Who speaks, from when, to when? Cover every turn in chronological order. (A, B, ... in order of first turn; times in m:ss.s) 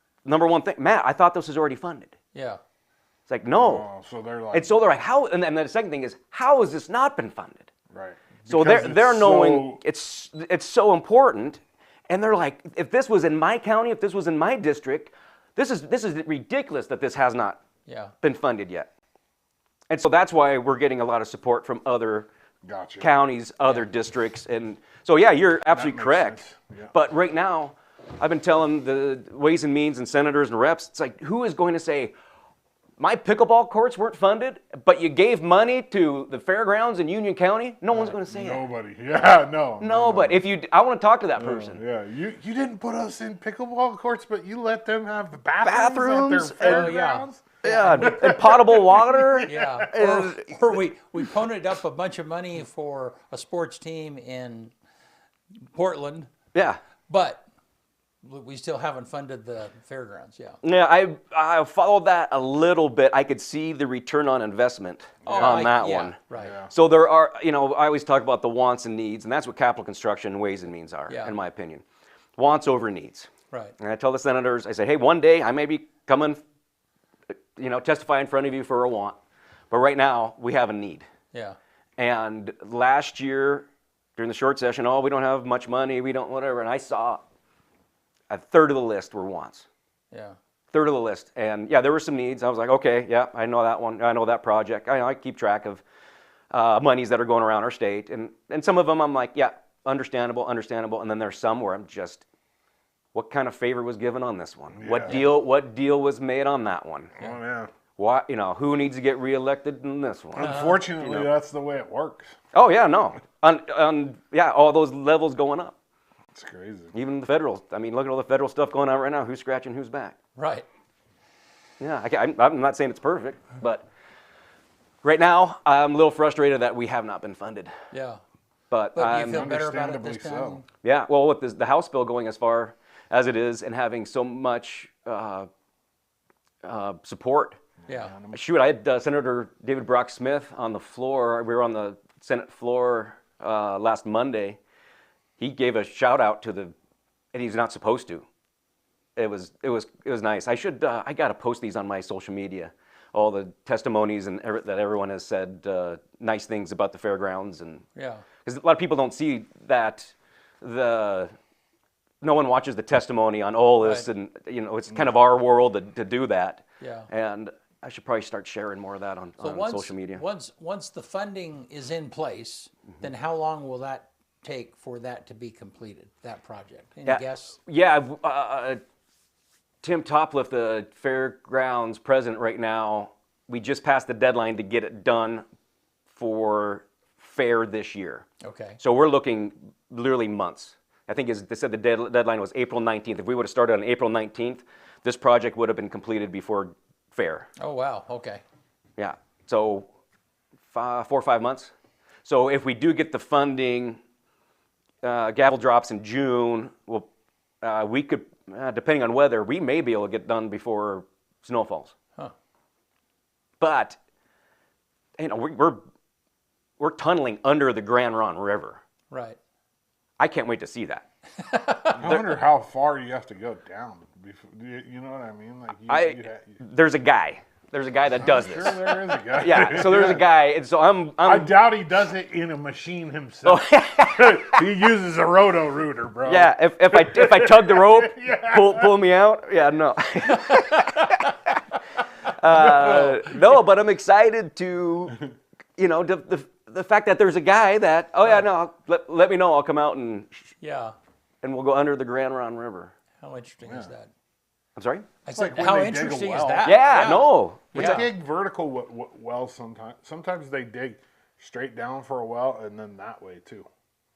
0:00.2-0:02.1 A
0:02.3-0:02.6 B
0:03.3-0:03.8 A
0:03.6-0:04.7 C
0:04.5-0:07.7 A
0:07.9-0:09.8 C
0:08.5-0:17.6 A
0:17.9-0:18.1 B
0:18.2-0:18.9 A
0:19.9-0:22.3 A
0:22.6-0:23.1 C
0:23.0-0:26.4 A
0:25.7-0:26.9 C
0:26.9-0:32.2 A
0:33.0-0:38.7 A
0:38.0-0:40.4 C
0:39.8-0:41.8 A
0:41.4-0:49.9 C
0:45.6-0:46.9 A
0:46.6-0:48.4 B
0:47.6-0:50.5 A
0:49.5-0:54.7 B
0:55.7-0:56.3 B
0:56.5-0:56.8 A
0:57.1-0:57.4 B
0:58.2-1:00.6 B
1:00.6-1:06.2 A
1:05.2-1:05.6 C
1:05.3-1:06.6 B
1:06.4-1:06.7 C
1:06.7-1:11.8 A
1:11.1-1:11.4 B
1:12.4-1:16.4 A
1:17.6-1:19.2 A
1:19.7-1:21.1 A
1:22.0-1:27.2 A
1:28.3-1:29.7 A
1:30.7-1:35.8 A
1:36.5-1:42.2 A
1:43.1-1:47.1 A
1:44.8-1:45.2 C
1:47.2-1:47.7 C
1:48.0-1:51.3 A
1:50.3-1:52.4 C
1:50.4-1:50.8 B
1:52.5-1:55.8 A
1:56.3-1:56.9 C
1:56.9-2:00.2 A
2:00.4-2:00.7 B
2:01.8-2:03.8 A
2:05.0-2:07.7 A
2:07.9-2:08.2 B
2:08.7-2:09.5 A
2:08.9-2:10.7 B
2:09.3-2:10.6 C
2:10.8-2:15.5 A
2:16.6-2:17.6 A
2:17.9-2:18.4 C
2:17.9-2:18.2 B
2:18.3-2:24.6 A
2:25.4-2:26.7 A
2:27.3-2:28.3 A
2:29.2-2:37.8 A
2:38.0-2:38.2 B
2:38.4-2:41.3 A
2:42.2-2:50.2 A
2:43.8-2:44.1 B
2:46.8-2:47.1 B
2:49.4-2:57.6 B
2:57.0-2:58.8 A
2:59.8-3:05.4 A
3:06.1-3:08.3 A
3:08.4-3:08.8 B
3:08.8-3:17.5 A
3:17.6-3:18.4 B
3:19.0-3:19.9 A
3:20.7-3:21.7 A
3:22.2-3:24.0 A
3:25.0-3:27.1 A
3:27.6-3:32.0 A
3:33.6-3:34.0 A
3:35.2-3:35.8 A
3:36.8-3:38.8 A
3:39.1-3:39.4 B
3:40.2-3:41.0 A
3:41.4-3:42.0 B
3:41.9-3:46.6 C
3:42.0-3:42.3 A
3:45.9-3:51.6 A
3:48.1-3:50.2 C
3:51.2-3:59.0 C
3:53.4-3:54.6 A
3:56.2-4:01.6 A
4:00.3-4:01.1 B
4:02.2-4:05.2 A
4:02.8-4:03.1 B
4:05.8-4:10.4 A
4:10.6-4:11.0 B
4:11.4-4:12.9 A
4:13.2-4:14.1 B
4:13.6-4:13.9 C
4:14.8-4:15.1 A
4:15.2-4:18.1 B
4:15.3-4:17.2 C
4:16.6-4:18.0 A
4:17.7-4:23.7 C